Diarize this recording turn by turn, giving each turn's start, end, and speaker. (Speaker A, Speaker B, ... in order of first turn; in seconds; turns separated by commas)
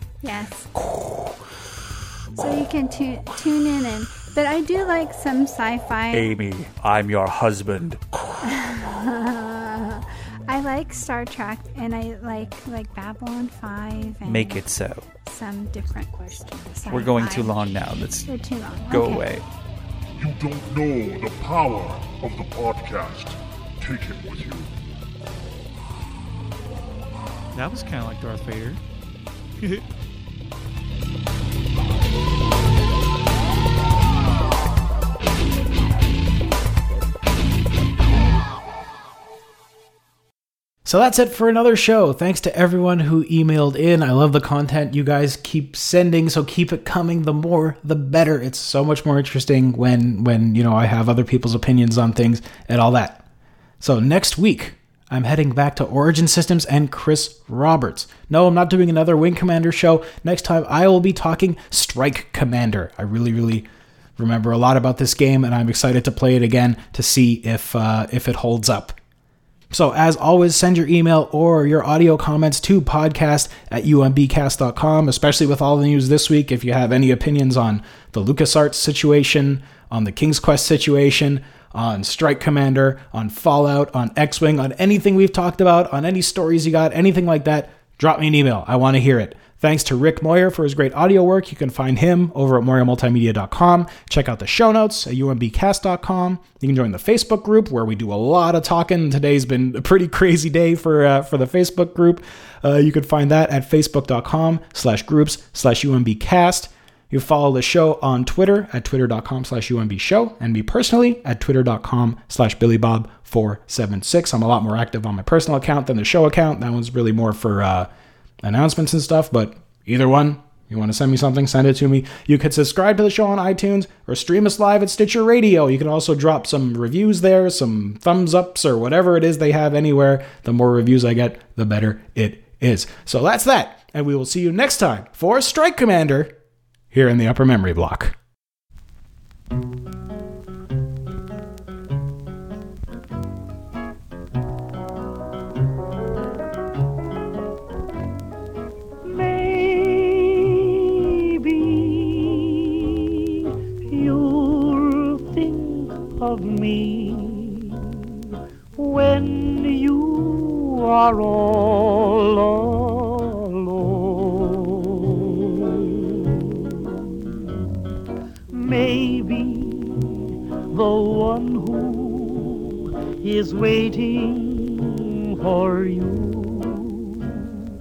Speaker A: 0.2-0.7, Speaker A: 2.4-6.3, Speaker B: 6.1-8.0, Speaker A: 8.4-14.7, Speaker B: 14.2-15.1, Speaker A: 15.2-19.4, Speaker B: 16.9-18.3, Speaker B: 18.9-19.4, Speaker C: 20.2-24.7, Speaker B: 27.5-28.8, Speaker D: 40.9-53.2, Speaker D: 53.8-63.6, Speaker D: 64.2-69.0, Speaker D: 69.7-117.9, Speaker D: 118.4-136.3, Speaker D: 136.9-138.2, Speaker E: 149.0-157.8, Speaker E: 158.8-167.4, Speaker E: 168.5-177.5